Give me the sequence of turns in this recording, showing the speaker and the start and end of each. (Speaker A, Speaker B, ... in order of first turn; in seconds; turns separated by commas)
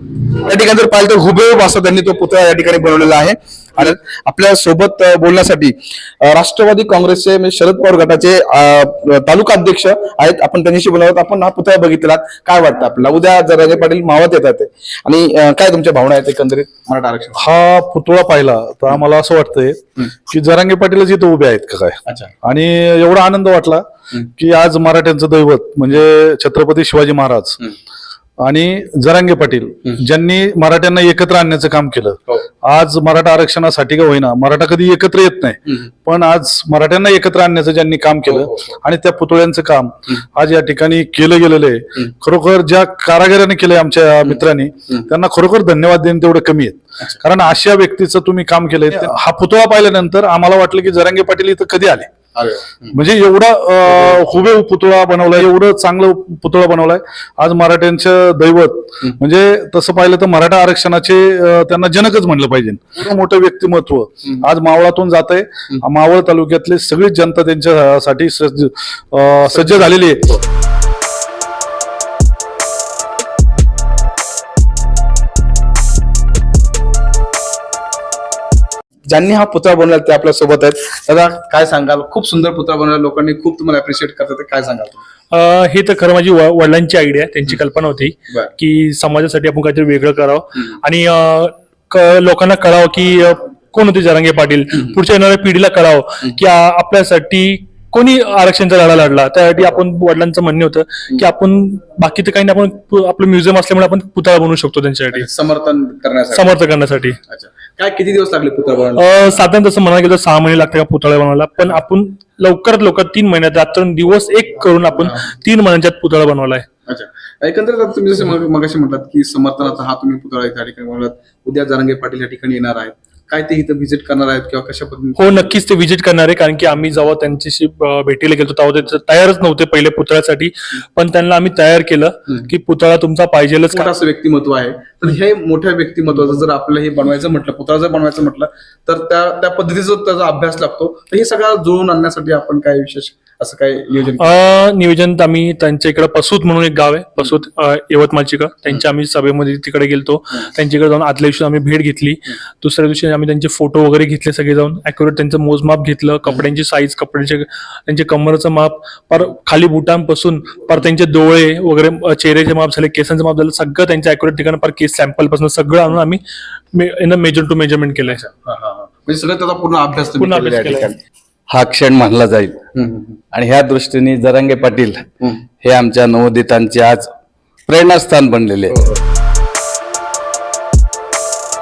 Speaker A: 0.3-17.5, Speaker B: 17.4-23.8, Speaker A: 22.1-22.3, Speaker B: 24.4-27.6, Speaker B: 28.4-52.1, Speaker A: 38.3-38.7, Speaker A: 52.3-53.0, Speaker B: 52.9-70.4, Speaker A: 79.1-85.0, Speaker C: 85.3-105.3, Speaker A: 105.1-106.5, Speaker C: 106.3-107.2, Speaker A: 107.3-109.3, Speaker C: 108.9-116.7, Speaker A: 116.9-125.3, Speaker C: 125.2-133.9, Speaker A: 133.7-144.4, Speaker C: 144.2-166.2, Speaker C: 166.7-168.2, Speaker A: 168.2-171.0, Speaker C: 170.2-170.9, Speaker D: 171.5-172.6, Speaker A: 172.7-173.2, Speaker D: 173.3-175.0, Speaker D: 175.6-177.1, Speaker D: 177.7-178.8